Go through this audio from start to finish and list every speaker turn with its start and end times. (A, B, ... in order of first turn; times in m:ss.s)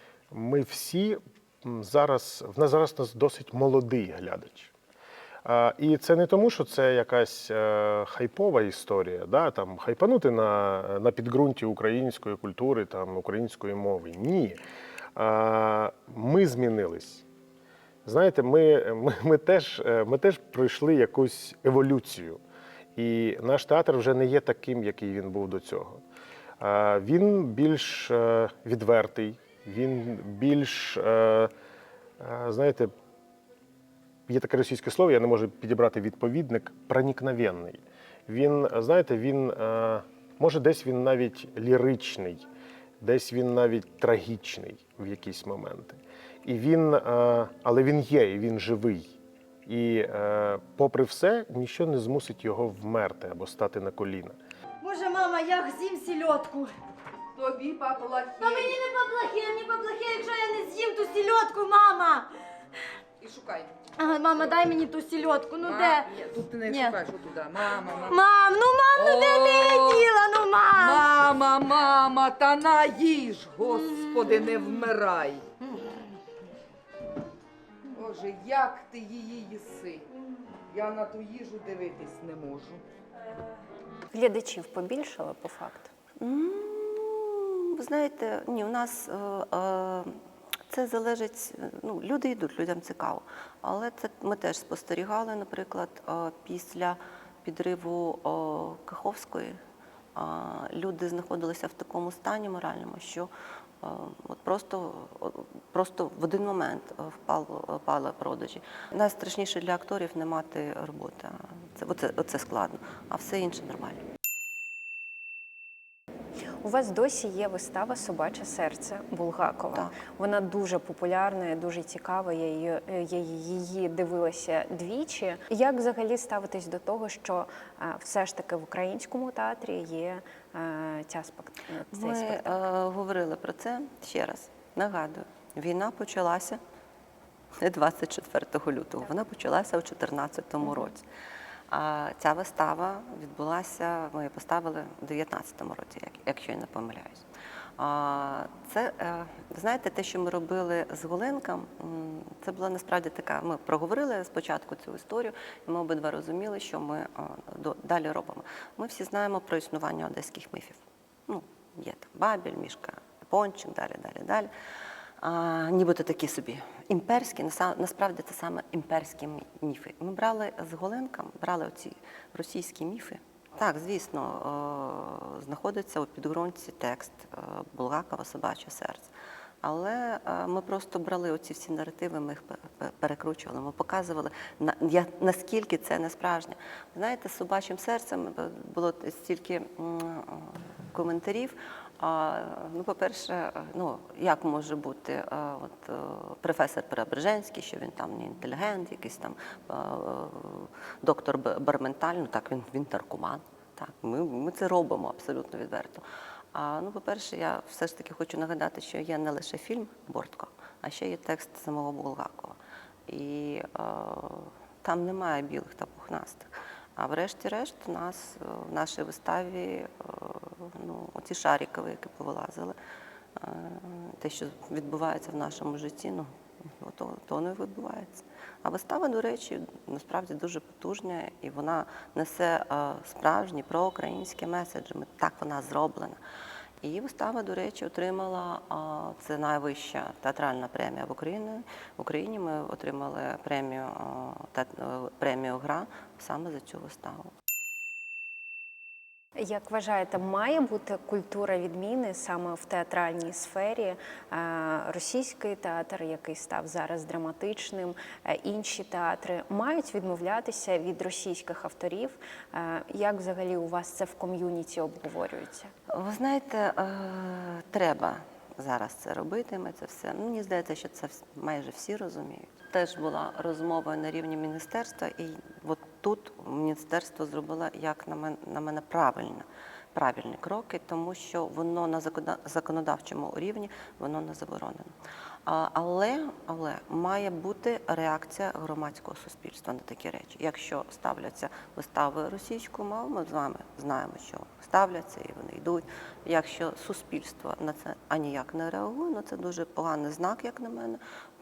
0:00.3-0:04.7 A
0:05.4-0:14.6 A
0:15.1-0:17.2 A
0:18.0-0:22.4 A
0:22.9-0:26.0 A
0:26.6-0:31.5 A
0:32.2-0:32.9 A
0:34.3-0:42.5 A
0:43.0-0:54.4 A
0:54.8-0:56.8 B
0:57.4-0:58.8 C
0:58.4-1:02.3 B
1:03.2-1:03.8 C
1:04.0-1:06.1 B
1:05.6-1:08.2 C
1:06.6-1:07.0 B
1:08.0-1:11.1 B
1:08.9-1:10.1 C
1:10.7-1:15.5 C
1:15.8-1:16.0 B
1:17.9-1:20.1 C
1:20.7-1:22.8 C
1:24.1-1:25.9 D
1:26.2-1:30.2 E
1:30.7-1:39.6 E
1:40.1-1:43.3 E
1:43.8-1:54.0 E
1:56.6-2:12.6 D
2:11.9-2:16.6 E
2:17.6-2:21.0 E
2:21.7-2:27.2 E
2:27.8-2:44.5 E
2:45.2-2:59.1 E
2:59.6-3:32.6 E
3:33.1-3:42.8 E
3:43.4-3:56.2 E
3:56.8-4:07.3 E
4:09.4-4:25.7 D
4:25.9-4:44.9 E
4:45.4-5:01.0 E